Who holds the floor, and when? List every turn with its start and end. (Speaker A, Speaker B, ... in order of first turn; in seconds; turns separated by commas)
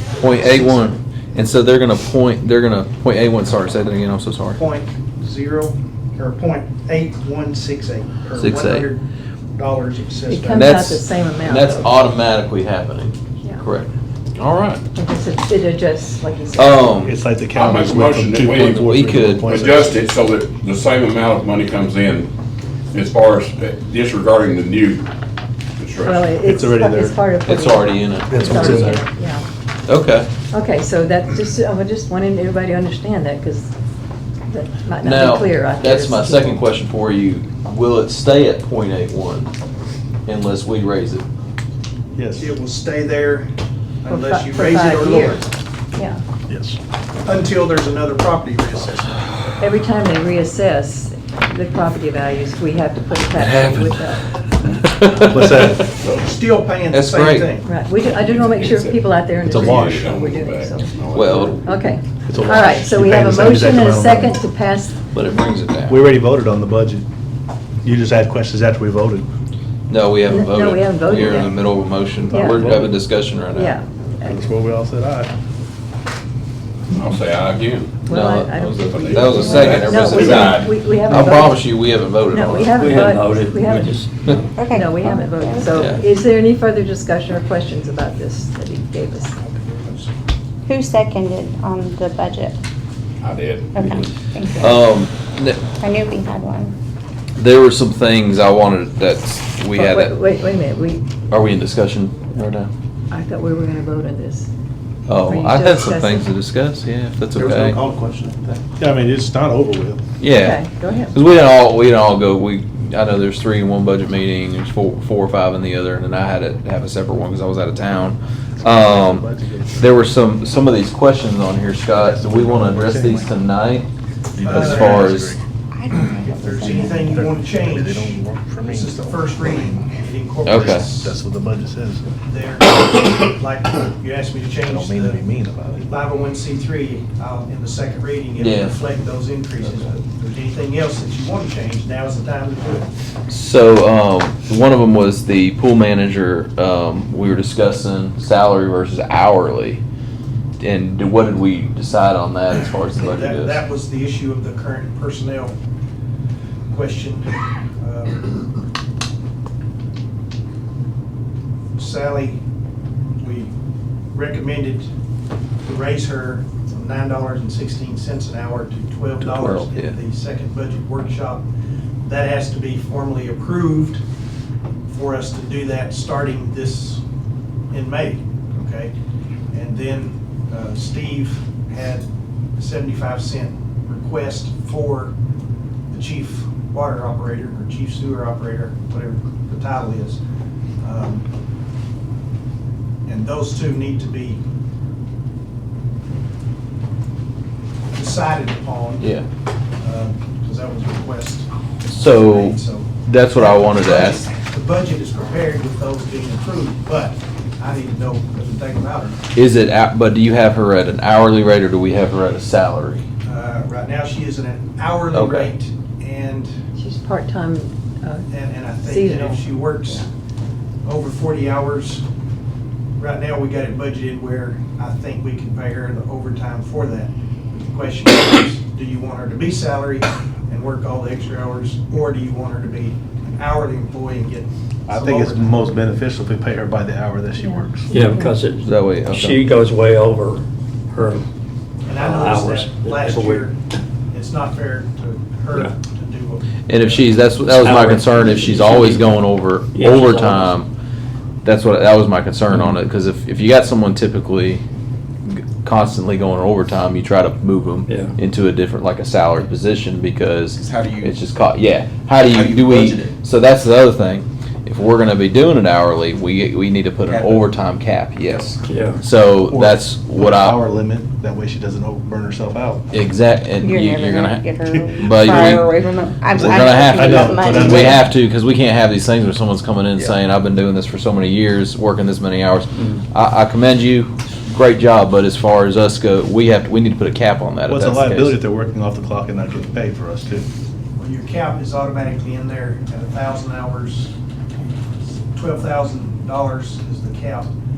Speaker A: 0.2-4.6, Speaker B: 0.3-0.9, Speaker B: 4.5-9.0, Speaker A: 8.4-8.9, Speaker B: 9.6-10.9, Speaker C: 10.3-11.9, Speaker A: 10.5-14.8, Speaker C: 14.9-16.9, Speaker A: 16.6-17.2, Speaker D: 17.0-20.0, Speaker E: 17.6-18.8, Speaker A: 18.8-19.6, Speaker E: 19.4-22.3, Speaker E: 22.9-25.1, Speaker E: 25.8-26.2, Speaker C: 26.1-29.5, Speaker D: 26.3-27.4, Speaker A: 27.4-29.1, Speaker D: 28.3-29.0, Speaker A: 29.9-30.3, Speaker C: 30.5-33.7, Speaker C: 34.5-36.6, Speaker A: 35.0-39.5, Speaker A: 40.3-41.2, Speaker D: 42.2-42.5, Speaker B: 42.4-43.5, Speaker B: 44.0-45.5, Speaker C: 44.1-46.2, Speaker D: 46.5-46.8, Speaker B: 47.2-49.4, Speaker C: 49.6-54.4, Speaker A: 53.4-55.8, Speaker D: 55.2-55.9, Speaker B: 56.2-57.7, Speaker A: 56.9-57.5, Speaker C: 57.6-61.0, Speaker E: 58.2-59.0, Speaker D: 59.5-60.1, Speaker E: 59.5-61.6, Speaker A: 61.1-61.6, Speaker C: 61.6-65.0, Speaker D: 62.3-64.4, Speaker A: 65.1-66.0, Speaker D: 65.9-67.1, Speaker D: 67.8-69.3, Speaker A: 69.9-73.8, Speaker C: 70.3-71.5, Speaker C: 72.3-72.7, Speaker D: 72.5-73.0, Speaker C: 73.5-74.4, Speaker D: 74.2-75.3, Speaker E: 76.9-77.9, Speaker C: 78.0-81.7, Speaker A: 78.0-82.9, Speaker E: 79.0-80.7, Speaker F: 79.4-79.8, Speaker C: 82.3-84.0, Speaker G: 82.6-84.4, Speaker F: 84.6-85.9, Speaker C: 84.8-89.4, Speaker A: 85.7-86.0, Speaker B: 89.5-90.1, Speaker F: 90.7-92.6, Speaker E: 93.2-93.8, Speaker F: 93.7-95.0, Speaker A: 94.6-95.6, Speaker F: 95.8-96.8, Speaker A: 97.4-100.2, Speaker C: 99.8-101.3, Speaker A: 101.3-102.7, Speaker C: 103.1-104.5, Speaker A: 105.1-107.8, Speaker C: 105.2-106.3, Speaker H: 107.4-108.5, Speaker D: 107.4-107.8, Speaker D: 108.7-110.0, Speaker A: 110.2-110.6, Speaker C: 110.3-111.2, Speaker A: 111.1-123.9, Speaker D: 118.6-120.0, Speaker D: 121.9-123.4, Speaker D: 124.3-125.4, Speaker B: 124.4-125.1, Speaker A: 124.4-125.3, Speaker F: 125.7-127.1, Speaker B: 126.0-131.2, Speaker D: 126.9-129.8, Speaker A: 130.4-130.9, Speaker D: 130.5-132.1, Speaker B: 132.2-135.2, Speaker D: 134.7-135.9, Speaker B: 135.8-142.9, Speaker A: 138.4-138.8, Speaker A: 143.3-149.8, Speaker A: 150.6-153.6, Speaker B: 153.0-155.6, Speaker B: 156.7-158.3, Speaker B: 161.8-162.4, Speaker B: 163.2-163.5, Speaker B: 164.1-164.9, Speaker B: 165.6-171.5, Speaker A: 169.2-169.9, Speaker B: 172.0-174.0, Speaker B: 174.9-177.0, Speaker B: 177.7-178.9, Speaker B: 179.5-185.2, Speaker B: 185.9-190.2, Speaker B: 190.8-191.2, Speaker B: 193.1-194.4, Speaker B: 197.9-199.1, Speaker A: 199.0-199.3, Speaker B: 199.8-209.2, Speaker A: 201.9-204.3, Speaker A: 209.3-213.1, Speaker B: 213.2-216.5, Speaker A: 215.1-215.5, Speaker C: 216.8-220.1, Speaker B: 218.3-220.1, Speaker B: 220.8-222.0, Speaker B: 223.0-235.6, Speaker D: 234.9-238.1, Speaker G: 237.9-241.3, Speaker A: 238.6-239.4, Speaker B: 241.8-243.6, Speaker G: 241.9-243.5, Speaker B: 244.1-247.1, Speaker A: 246.7-250.7, Speaker G: 247.4-249.0, Speaker G: 249.7-250.5, Speaker A: 251.4-254.6, Speaker A: 255.3-270.6, Speaker G: 257.9-258.2, Speaker H: 260.6-261.1, Speaker H: 262.3-263.1, Speaker H: 267.1-267.5, Speaker G: 268.7-269.0, Speaker D: 269.5-272.9, Speaker A: 272.9-274.4, Speaker F: 273.6-278.0, Speaker A: 275.0-275.7, Speaker D: 276.3-278.1, Speaker A: 276.4-288.4, Speaker D: 287.7-290.5, Speaker B: 291.0-294.1, Speaker B: 295.3-297.5